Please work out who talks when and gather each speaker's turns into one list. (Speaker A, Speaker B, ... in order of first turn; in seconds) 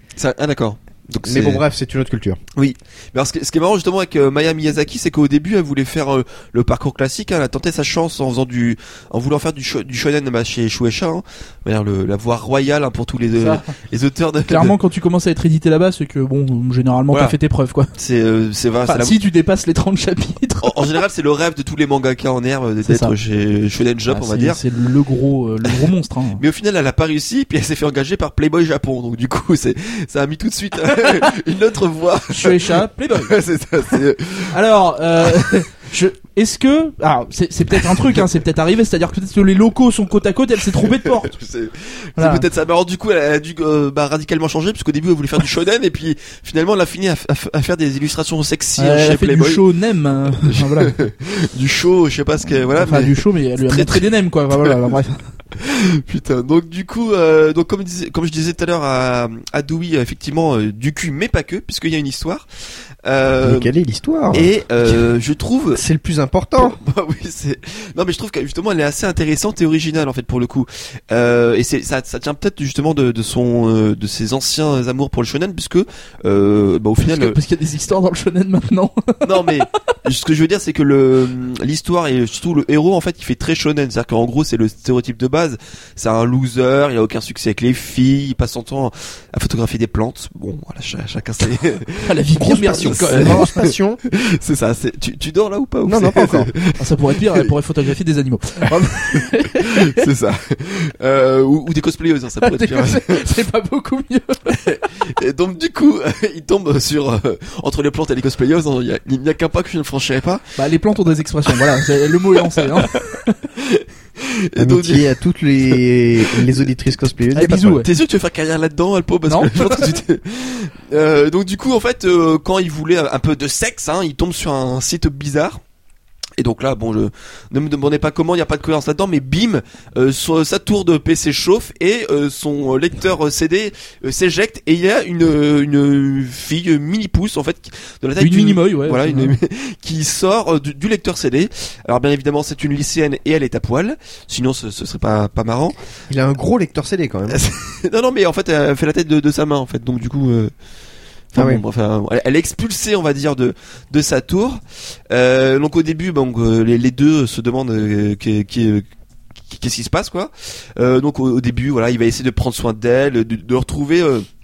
Speaker A: 0.2-1.6, 2.6-14.7, 17.1-17.4, 18.0-19.1, 20.6-24.6, 26.4-34.6, 35.2-35.6, 37.8-38.2, 40.8-49.6, 50.4-54.1, 55.5-62.5, 63.0-63.7, 64.3-65.8, 66.6-77.4, 79.2-97.5, 99.1-103.3, 104.5-110.6, 112.4-115.1, 115.7-116.7, 117.4-125.6, 126.4-145.8, 147.3-150.5, 151.3-158.9, 159.5-164.3
Speaker B: 1.2-2.4, 63.4-65.1, 65.7-66.8, 92.4-94.0, 95.8-96.5, 114.6-117.8, 146.1-147.4, 151.3-151.6
Speaker C: 13.4-13.6, 14.5-17.9, 18.9-20.9, 22.9-23.1, 24.1-26.4, 32.3-33.3, 34.5-41.4, 42.2-42.5, 48.8-51.0, 52.5-55.3, 77.0-79.5, 92.0-93.6, 96.8-100.0, 102.4-104.6, 110.6-113.3, 117.3-117.9, 119.3-119.9, 138.2-139.4